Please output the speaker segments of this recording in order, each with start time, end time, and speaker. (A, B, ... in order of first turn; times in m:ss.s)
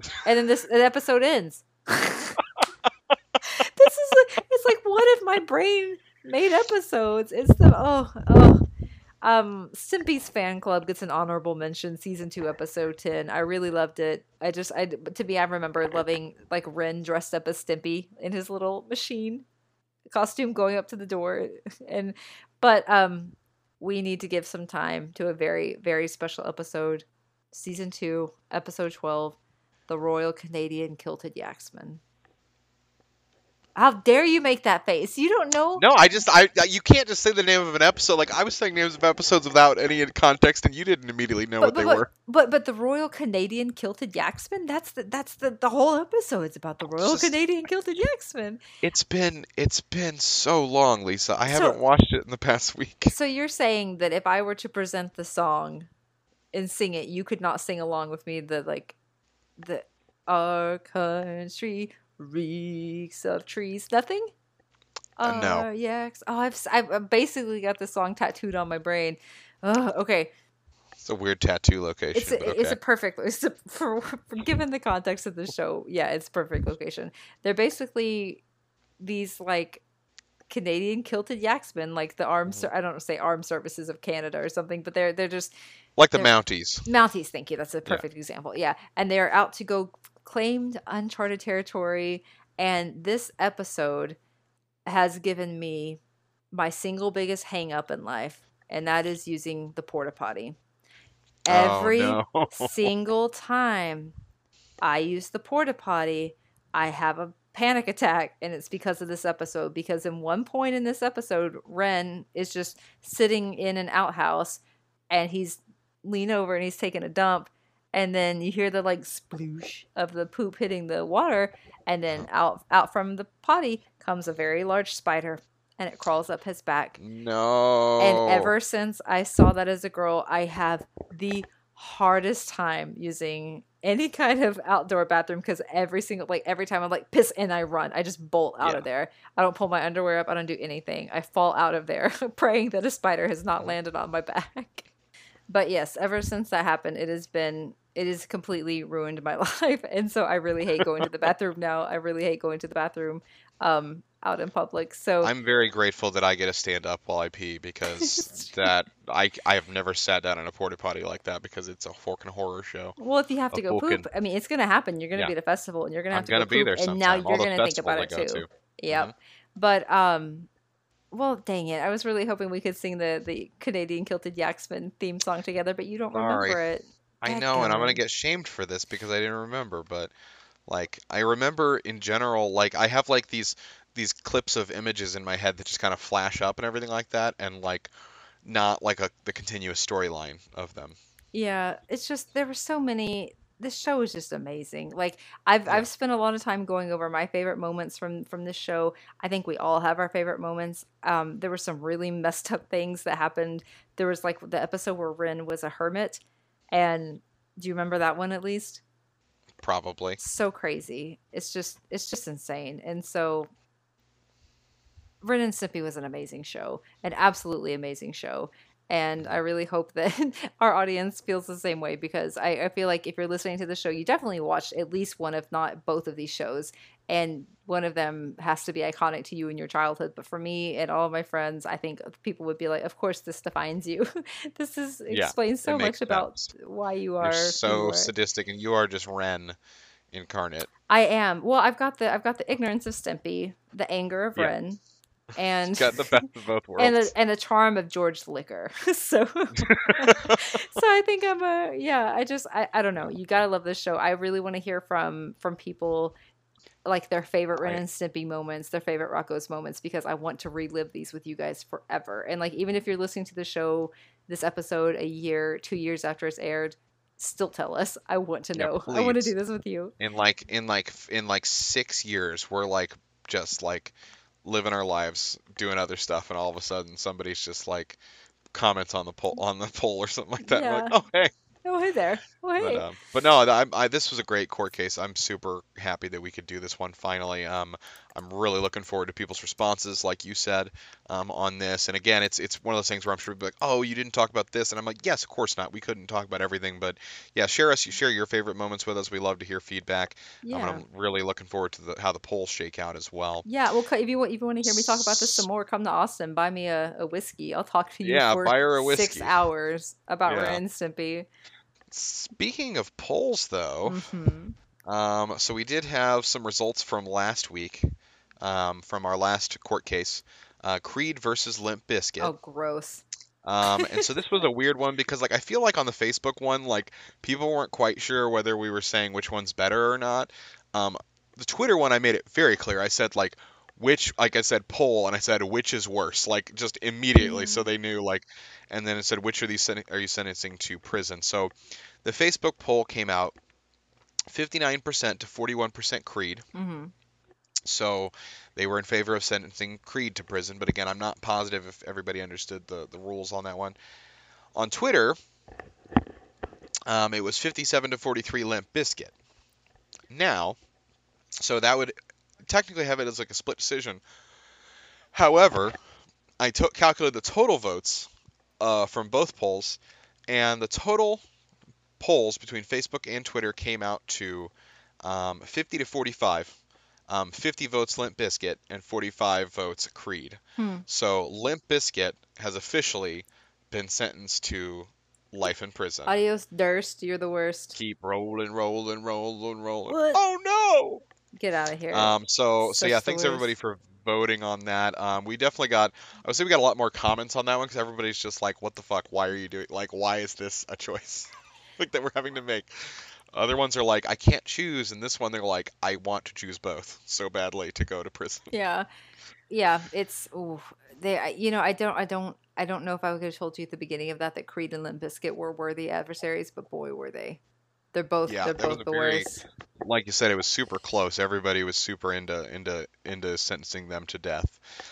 0:00.2-0:02.4 A
0:03.4-0:08.6 A
0:09.2-0:19.4 A
0:20.1-0:32.0 A
0:33.7-0:35.8 A
0:35.8-0:42.1 B
0:41.6-0:48.6 A
0:47.0-0:47.3 B
0:48.8-0:53.1 B
0:51.5-0:51.8 A
0:53.1-0:55.9 A
0:56.5-0:58.9 A
0:59.6-1:04.3 A
1:05.2-1:10.3 A
1:05.2-1:05.7 B
1:11.0-1:12.8 B
1:12.1-1:18.4 A
1:19.0-1:19.8 A
1:20.5-1:25.5 A
1:26.0-1:26.8 B
1:26.8-1:34.2 A
1:34.8-1:36.0 A
1:36.5-1:40.6 A
1:41.4-1:44.1 A
1:41.5-1:42.9 B
1:44.8-2:07.0 A
2:07.0-2:08.5 B
2:08.0-2:24.9 A
2:25.5-2:35.3 A
2:30.8-2:31.1 B
2:35.2-2:43.0 B
2:38.0-2:38.6 A
2:43.0-2:50.5 A
2:43.5-2:44.0 B
2:46.1-2:49.1 B
2:51.1-2:58.0 A
2:56.1-2:56.6 B
2:57.2-3:00.1 B
3:00.7-3:07.9 B
3:08.4-3:11.0 B
3:11.3-3:28.8 A
3:29.6-3:30.2 B
3:30.2-3:33.5 A
3:35.2-3:58.1 A
3:55.1-3:56.5 B
3:57.2-3:59.6 B
4:00.1-4:00.7 B
4:00.9-4:04.8 A
4:05.4-4:06.1 A
4:05.7-4:07.1 B
4:06.8-4:16.1 A
4:09.6-4:10.4 B
4:16.8-4:29.9 A
4:28.5-4:29.3 B
4:30.0-4:38.0 B
4:38.5-4:41.3 B
4:40.4-4:41.0 A
4:41.6-4:42.9 A
4:42.6-5:03.4 B
5:00.4-5:00.8 A
5:03.4-5:11.3 A
5:04.6-5:05.5 B
5:08.0-5:09.4 B
5:10.3-5:10.6 B
5:11.9-5:14.1 B
5:13.8-5:14.5 A
5:14.8-5:22.3 B
5:22.2-5:23.0 A
5:23.4-5:43.4 B
5:23.7-5:24.0 A
5:37.2-5:37.7 A
5:44.3-5:46.4 B
5:46.5-5:46.9 A
5:47.6-5:53.8 B
5:54.5-5:55.2 B
5:56.8-5:59.1 B
6:00.1-6:00.6 B
6:01.4-6:04.0 B
6:05.1-6:05.8 B
6:06.4-6:11.2 B
6:12.0-6:16.6 B
6:17.1-6:26.1 B
6:20.6-6:20.8 A
6:26.0-6:27.8 A
6:27.7-6:31.0 B
6:29.9-6:30.2 A
6:31.4-6:33.5 A
6:31.9-6:48.5 B
6:48.5-6:48.9 A
6:49.5-6:57.4 A
6:57.9-6:59.4 A
6:58.3-7:04.6 B